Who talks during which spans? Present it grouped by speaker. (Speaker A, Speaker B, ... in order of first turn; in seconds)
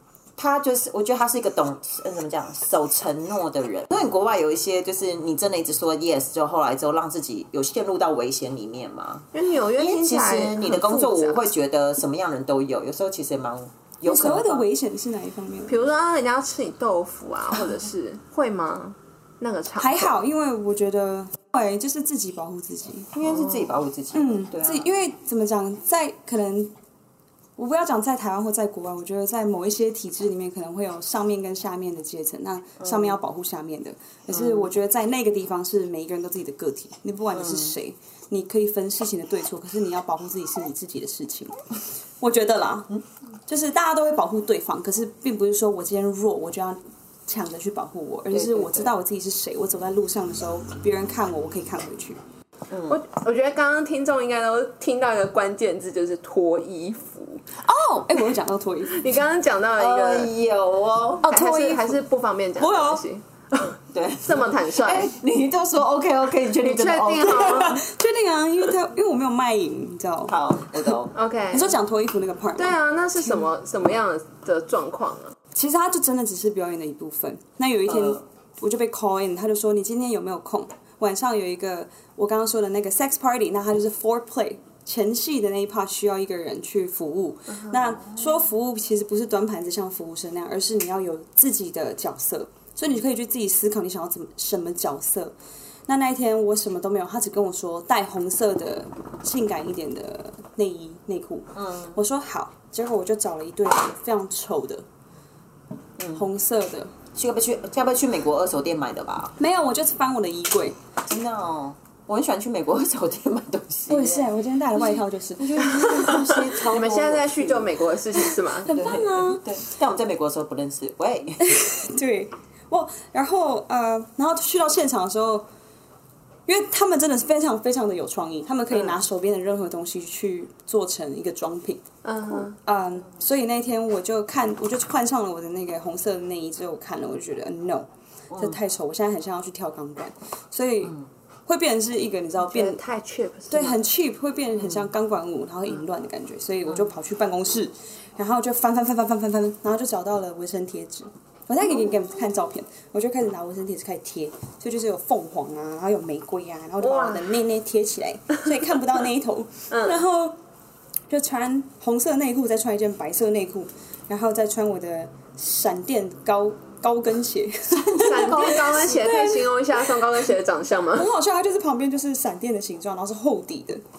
Speaker A: 0.4-14.7, 23.1-24.9, 32.8-33.2, 34.3-34.7, 37.3-37.8, 48.3-48.9, 52.7-53.0, 59.8-61.3, 63.9-67.8, 70.3-71.1, 77.9-78.2, 101.6-102.0, 106.0-106.2, 107.2-109.4, 111.1-117.8, 118.6-121.5, 138.3-138.6, 144.6-144.9, 167.7-168.9
Speaker B: 9.3-11.5, 15.7-20.2, 52.9-57.4, 58.9-60.3, 61.2-65.1, 66.6-67.8, 71.1-71.8, 72.6-75.3, 115.6-118.8, 132.0-132.6, 142.4-143.8, 156.8-157.3, 159.7-160.0, 168.0-171.1
Speaker C: 14.1-15.8, 19.8-23.1, 24.1-26.7, 27.6-41.6, 42.2-42.9, 43.5-52.2, 57.6-59.0, 61.2-62.0, 62.6-63.0, 67.4-71.0, 71.5-73.4, 75.5-95.4, 95.9-104.8, 106.1-106.9, 109.4-110.8, 113.9-116.6, 118.7-119.4, 121.4-125.5, 126.5-131.8, 132.4-142.8, 143.5-160.4, 161.1-169.8, 170.9-173.8